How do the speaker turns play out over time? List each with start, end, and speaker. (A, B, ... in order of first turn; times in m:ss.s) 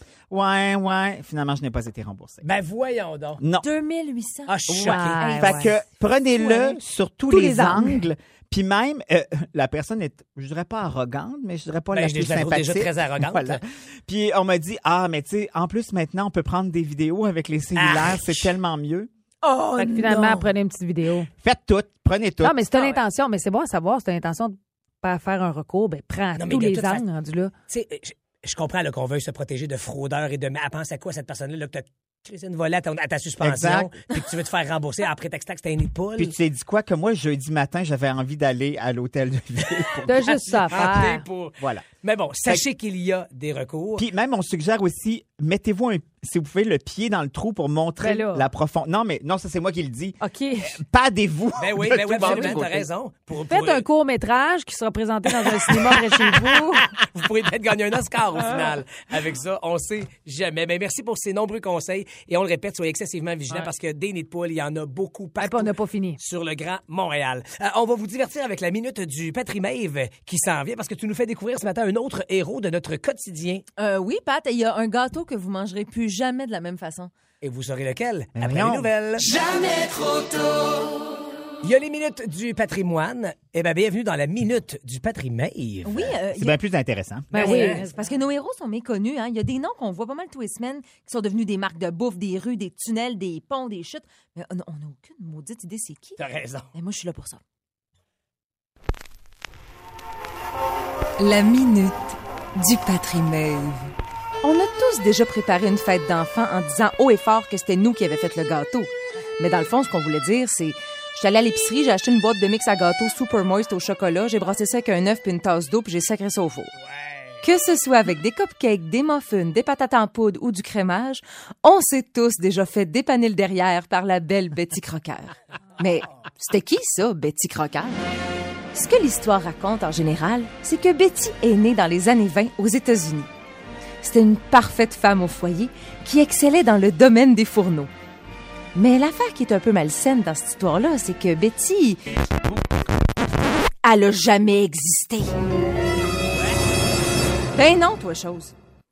0:00.3-0:02.4 A
0:02.4-0:03.4 B
0:03.4-0:03.7 A
0:03.6-0:06.8 C
0:04.5-0:05.3 B
0:04.7-0:05.7 D
0:05.4-0:19.1 A
0:07.3-0:08.0 D
0:11.9-0:13.6 B
0:17.8-0:18.6 B
0:19.4-0:20.5 C
0:19.8-0:21.3 D
0:21.4-0:22.6 A
0:22.4-0:27.5 D
0:26.4-0:27.0 B
0:27.7-0:36.4 B
0:33.4-0:33.9 A
0:36.2-0:40.9 A
0:39.8-0:44.1 B
0:40.1-0:41.2 D
0:41.6-0:41.8 A
0:44.0-0:52.9 A
0:48.0-0:48.5 D
0:50.2-0:50.8 D
0:51.6-0:53.8 B
0:53.5-0:56.9 D
0:55.4-1:13.6 B
1:05.4-1:06.2 D
1:13.8-1:17.1 C
1:17.4-1:19.4 B
1:18.4-1:18.9 A
1:21.6-1:26.2 B
1:25.8-1:26.6 C
1:26.3-1:27.5 A
1:27.3-1:27.9 D
1:27.3-1:36.2 C
1:27.4-1:27.8 B
1:36.2-1:36.7 B
1:36.7-1:37.4 C
1:41.2-1:56.7 C
1:56.8-1:57.4 B
1:57.4-2:08.0 C
2:08.7-2:13.3 C
2:14.0-2:17.9 C
2:18.8-2:22.0 C
2:23.8-2:25.4 C
2:27.5-2:28.5 C